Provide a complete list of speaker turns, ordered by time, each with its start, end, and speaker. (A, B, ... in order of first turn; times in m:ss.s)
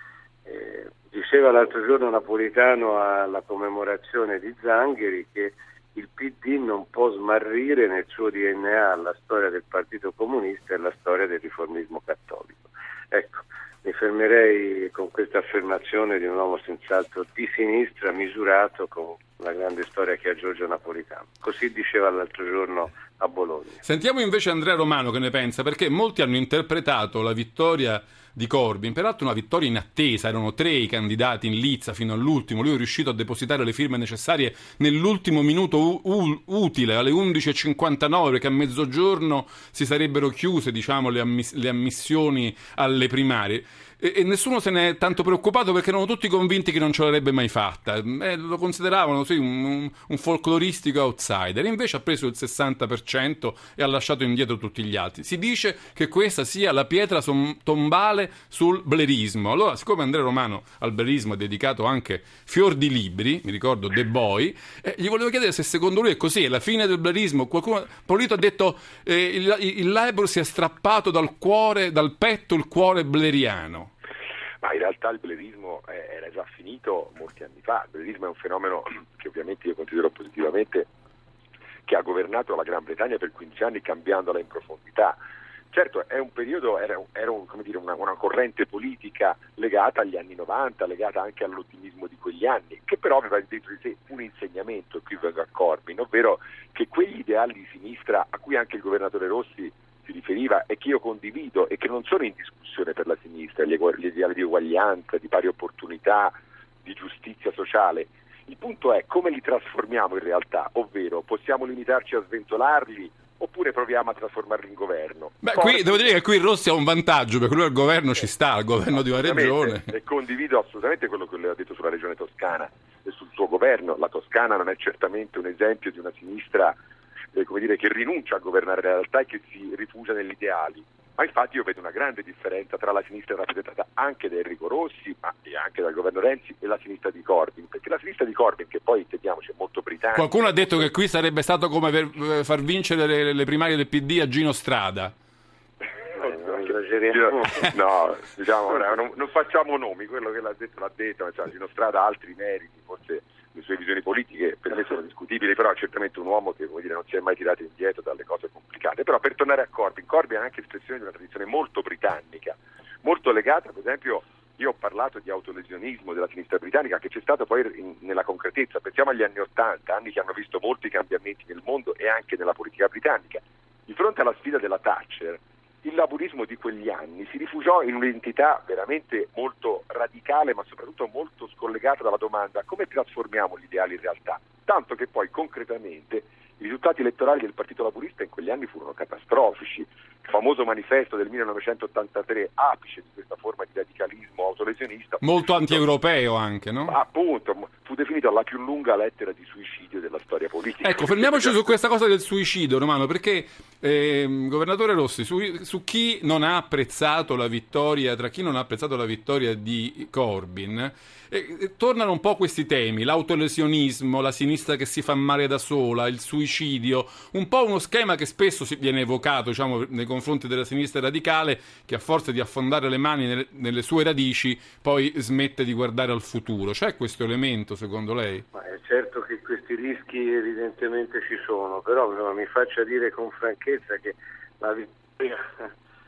0:00.4-0:23.8 A
0:23.8-1:13.9 B
1:14.6-1:20.9 C
1:21.8-1:25.2 C
1:25.7-1:56.1 C
1:55.4-1:59.9 B
1:58.9-2:06.8 C
2:07.3-2:20.9 C
2:20.1-2:25.1 B
2:26.1-2:27.6 A
2:27.1-3:15.8 C
3:15.2-3:17.0 B
3:16.9-3:21.7 C
3:20.8-3:48.4 B
3:48.5-3:55.4 A